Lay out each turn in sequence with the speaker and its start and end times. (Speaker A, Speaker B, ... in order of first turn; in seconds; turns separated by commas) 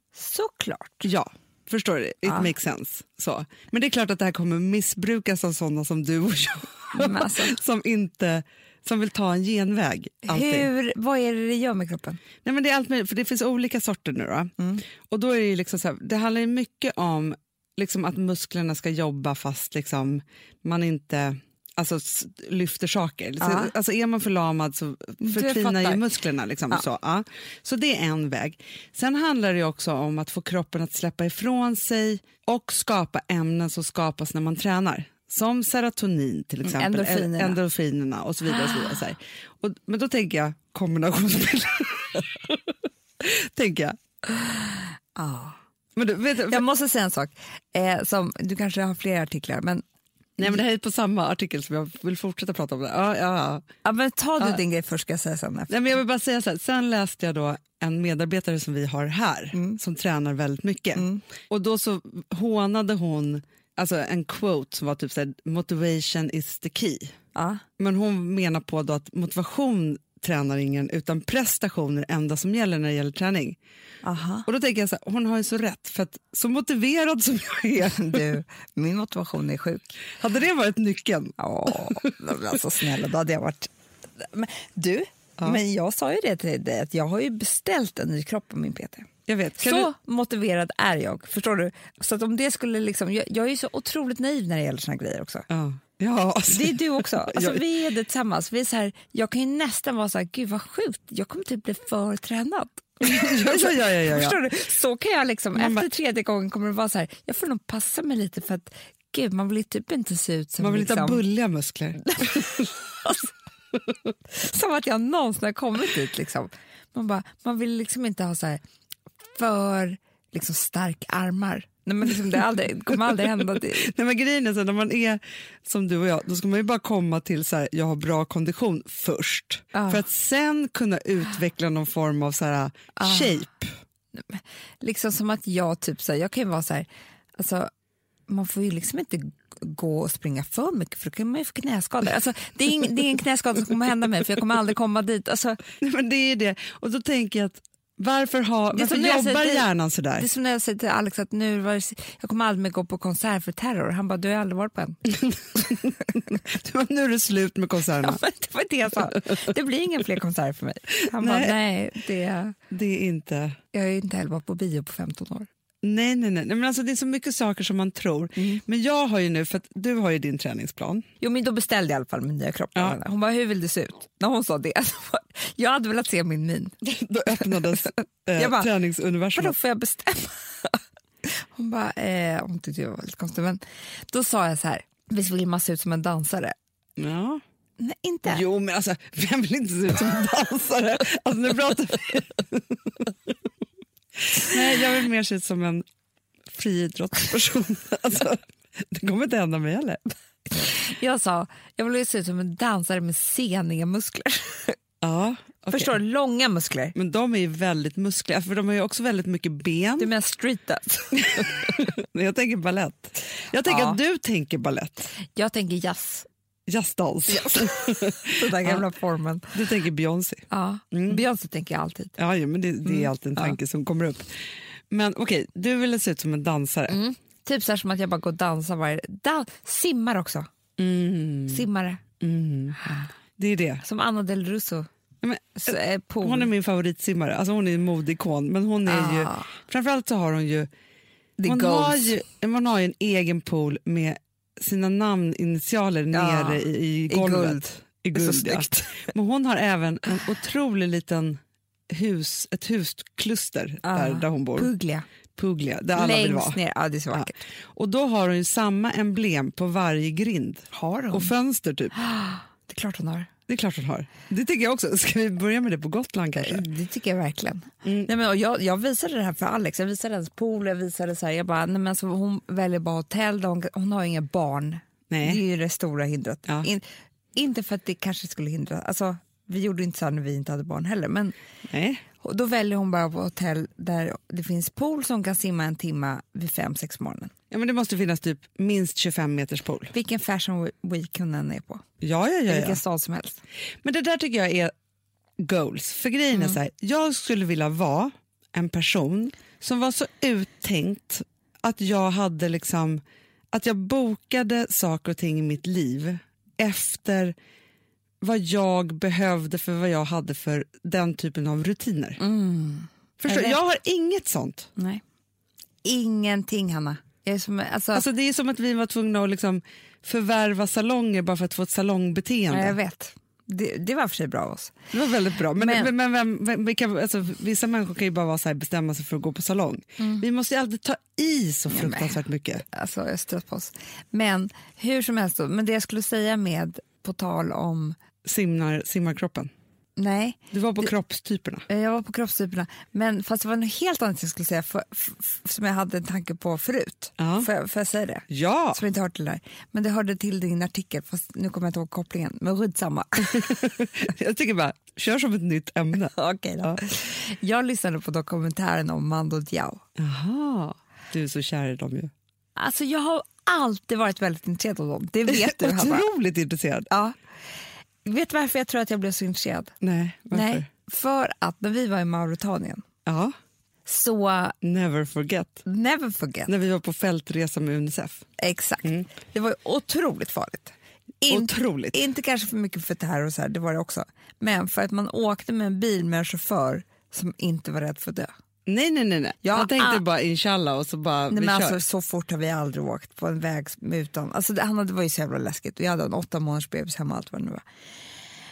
Speaker A: 0.1-1.1, Speaker B: 1.0-10.7, Speaker A: 2.2-2.5, Speaker A: 6.9-7.6, Speaker A: 10.3-12.2, Speaker B: 12.4-44.0, Speaker A: 23.4-23.7, Speaker A: 25.2-26.0, Speaker A: 36.6-37.6, Speaker A: 45.1-45.6, Speaker B: 46.0-46.6, Speaker A: 46.5-49.8, Speaker B: 50.4-53.7, Speaker A: 53.8-55.8, Speaker B: 55.7-67.2, Speaker A: 59.5-59.8, Speaker A: 60.9-61.2, Speaker A: 67.3-67.6, Speaker B: 67.8-73.6, Speaker A: 74.0-74.5, Speaker B: 74.5-78.2, Speaker A: 77.8-80.0, Speaker B: 80.1-82.1, Speaker A: 81.4-95.5, Speaker B: 89.3-89.9, Speaker B: 95.5-97.6, Speaker A: 96.5-111.2, Speaker B: 103.0-104.4, Speaker B: 105.5-105.9, Speaker B: 110.6-112.7, Speaker A: 112.0-113.3, Speaker A: 114.3-118.6, Speaker A: 119.2-123.9, Speaker B: 123.6-133.7, Speaker A: 129.7-130.0, Speaker A: 133.0-133.3, Speaker A: 134.1-137.7, Speaker A: 138.3-145.6, Speaker B: 145.8-150.3, Speaker A: 148.7-149.7, Speaker A: 150.2-155.0, Speaker B: 155.2-158.2, Speaker A: 158.0-162.5, Speaker B: 161.1-161.6, Speaker B: 162.7-163.6, Speaker A: 163.7-165.5, Speaker B: 165.8-171.1, Speaker A: 168.3-168.6, Speaker A: 171.2-176.8, Speaker B: 176.8-179.6, Speaker A: 177.3-178.7, Speaker A: 179.3-186.5, Speaker B: 187.0-187.4, Speaker A: 187.8-188.4, Speaker B: 188.3-193.1, Speaker B: 194.3-195.8, Speaker B: 196.5-200.1, Speaker A: 200.5-204.8, Speaker B: 205.0-206.0, Speaker A: 205.7-206.9, Speaker B: 206.9-210.1, Speaker A: 210.0-211.9, Speaker B: 211.7-215.1, Speaker A: 213.6-214.0, Speaker A: 215.2-216.3, Speaker B: 216.7-218.8, Speaker A: 217.3-219.5, Speaker B: 219.5-221.2, Speaker A: 220.5-222.1, Speaker B: 222.2-224.3, Speaker A: 222.8-223.6, Speaker B: 224.9-227.0, Speaker A: 226.9-230.5, Speaker B: 230.8-231.7, Speaker A: 231.5-232.0, Speaker B: 232.2-233.8, Speaker A: 233.8-234.9, Speaker B: 235.2-240.7, Speaker A: 235.6-236.5, Speaker A: 238.8-239.5, Speaker A: 241.4-242.1, Speaker B: 241.4-251.4, Speaker A: 246.1-248.9, Speaker B: 251.9-254.7, Speaker A: 253.8-255.1, Speaker B: 255.3-256.6, Speaker A: 255.9-257.4, Speaker B: 257.1-262.0, Speaker A: 260.7-261.3, Speaker A: 262.0-263.3, Speaker B: 263.5-266.7, Speaker A: 266.4-281.3, Speaker B: 267.8-268.1, Speaker B: 275.1-275.4, Speaker B: 281.7-282.0, Speaker A: 282.2-287.3, Speaker B: 287.5-289.9, Speaker A: 289.9-291.8, Speaker B: 292.0-292.8, Speaker A: 292.5-293.4, Speaker B: 293.8-294.7, Speaker B: 295.4-303.0, Speaker A: 296.3-296.6, Speaker B: 303.5-307.3, Speaker B: 308.2-312.2, Speaker A: 312.2-313.6, Speaker B: 313.2-314.7, Speaker A: 314.8-315.0, Speaker A: 315.8-318.0, Speaker B: 317.9-322.8, Speaker A: 322.5-324.8, Speaker B: 324.9-332.6, Speaker A: 325.5-325.9, Speaker A: 330.0-330.2, Speaker A: 331.7-338.0, Speaker B: 338.2-339.5, Speaker A: 340.0-340.9, Speaker B: 340.5-341.6, Speaker A: 341.7-353.7, Speaker B: 347.2-347.5, Speaker B: 348.3-348.8, Speaker B: 353.3-356.8, Speaker A: 356.1-359.8, Speaker B: 360.0-362.1, Speaker A: 362.6-366.1, Speaker B: 365.3-366.9, Speaker A: 366.9-367.2, Speaker A: 368.0-369.7, Speaker B: 369.8-370.7, Speaker A: 370.3-372.8, Speaker B: 373.0-373.3, Speaker A: 373.9-374.6, Speaker B: 374.6-375.6, Speaker A: 375.6-376.5, Speaker B: 376.4-378.2, Speaker A: 378.4-388.3, Speaker B: 378.8-379.1, Speaker B: 381.3-382.0, Speaker B: 388.7-391.8, Speaker A: 389.4-390.0, Speaker A: 391.3-397.6